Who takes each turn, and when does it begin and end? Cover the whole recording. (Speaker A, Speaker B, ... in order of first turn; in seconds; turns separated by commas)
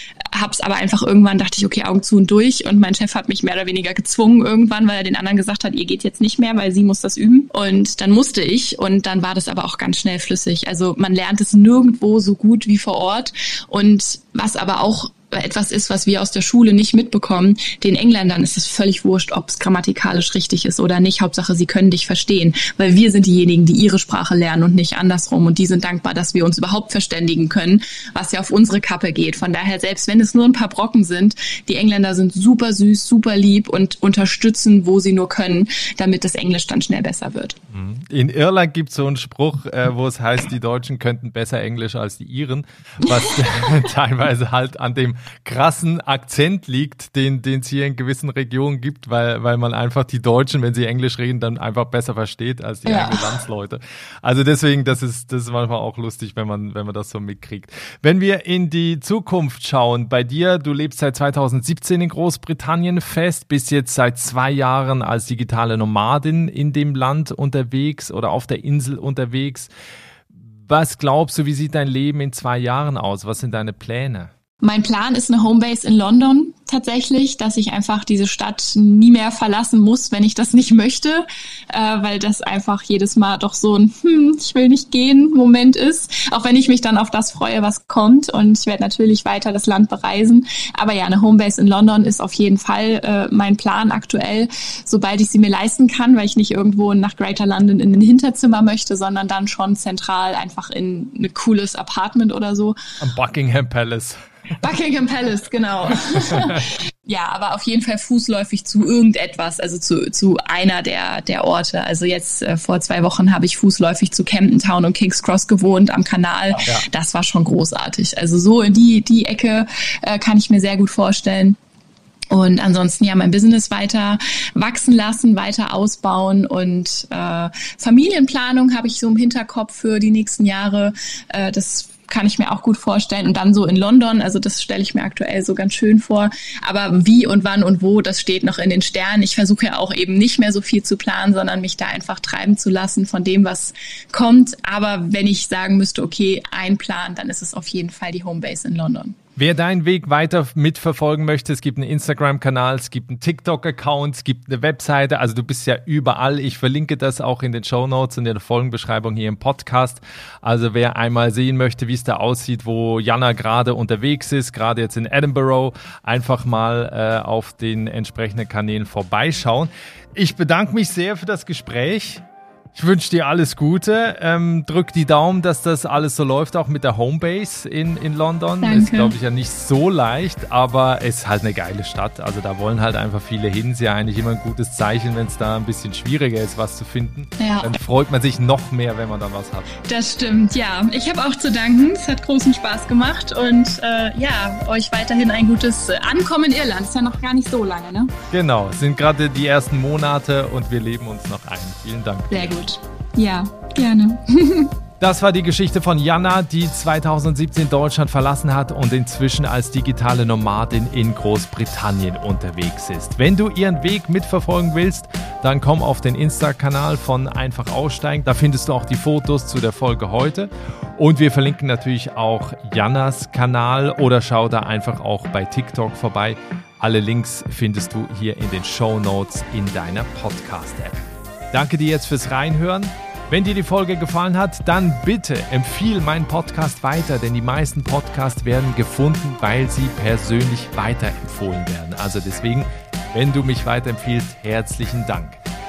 Speaker A: 0.3-37.6, Speaker B: 37.7-69.7, Speaker A: 52.9-53.4, Speaker B: 70.6-74.3, Speaker A: 74.6-102.8, Speaker B: 103.0-104.2, Speaker A: 104.6-121.6, Speaker B: 106.1-106.6, Speaker A: 122.3-149.2, Speaker B: 149.4-172.2, Speaker B: 172.7-189.7, Speaker A: 178.6-179.1, Speaker A: 187.4-187.8, Speaker A: 189.9-198.1, Speaker B: 198.3-202.6, Speaker A: 202.3-204.7, Speaker B: 205.0-245.4